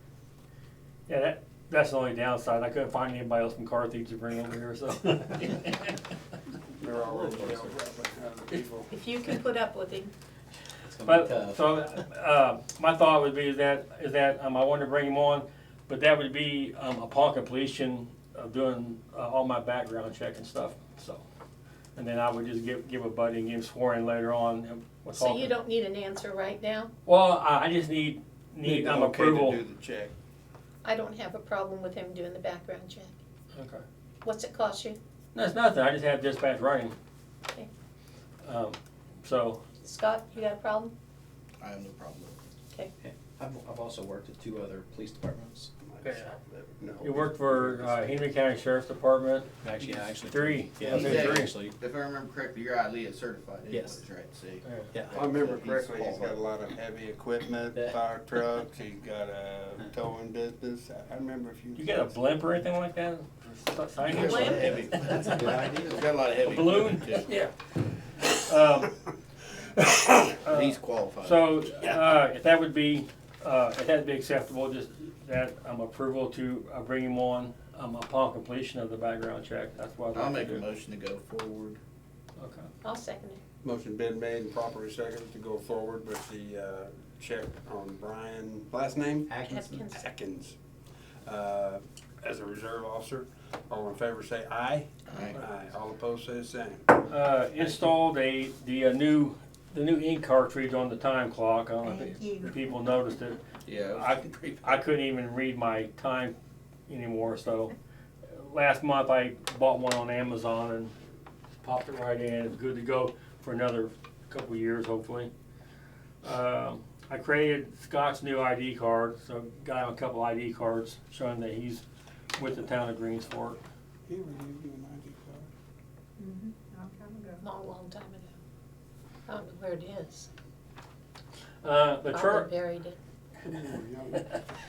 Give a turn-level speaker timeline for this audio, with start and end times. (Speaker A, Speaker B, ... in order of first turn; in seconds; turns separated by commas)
Speaker A: 1.1-6.0, Speaker B: 6.8-8.9, Speaker C: 7.1-7.7, Speaker D: 8.9-10.1, Speaker C: 10.9-11.6, Speaker A: 11.1-21.2, Speaker A: 22.0-25.5, Speaker D: 25.1-26.9, Speaker A: 27.1-29.6, Speaker B: 28.6-30.1, Speaker D: 30.8-33.1, Speaker A: 33.5-33.8, Speaker D: 34.2-35.0, Speaker A: 35.3-37.0, Speaker A: 38.4-39.6, Speaker D: 39.8-40.9, Speaker E: 41.6-42.4, Speaker C: 43.0-45.7, Speaker B: 45.9-47.9, Speaker A: 46.0-46.4, Speaker A: 47.0-51.5, Speaker C: 49.6-51.8, Speaker E: 50.9-56.4, Speaker C: 53.7-54.0, Speaker A: 54.6-54.9, Speaker C: 54.8-55.1, Speaker B: 55.1-62.1, Speaker A: 61.8-65.7, Speaker E: 64.1-67.3, Speaker D: 64.1-65.1, Speaker A: 66.4-67.5, Speaker A: 68.3-68.9, Speaker A: 70.1-80.7, Speaker E: 70.5-72.0, Speaker E: 80.1-81.8, Speaker A: 82.4-82.7, Speaker D: 82.8-83.4, Speaker B: 83.6-89.3, Speaker C: 89.3-89.8, Speaker D: 89.5-90.1, Speaker B: 89.9-90.6, Speaker B: 91.2-96.8, Speaker E: 95.1-95.5, Speaker A: 97.1-103.4, Speaker F: 101.8-102.7, Speaker E: 103.7-104.8, Speaker A: 103.9-106.4, Speaker A: 106.9-107.7, Speaker A: 108.3-110.9, Speaker A: 111.6-115.3, Speaker A: 116.2-121.8, Speaker A: 122.4-123.6, Speaker B: 124.1-125.5, Speaker F: 126.2-127.5, Speaker D: 127.4-128.3, Speaker D: 129.3-130.3, Speaker A: 131.6-132.5, Speaker D: 132.1-133.0, Speaker B: 133.4-134.2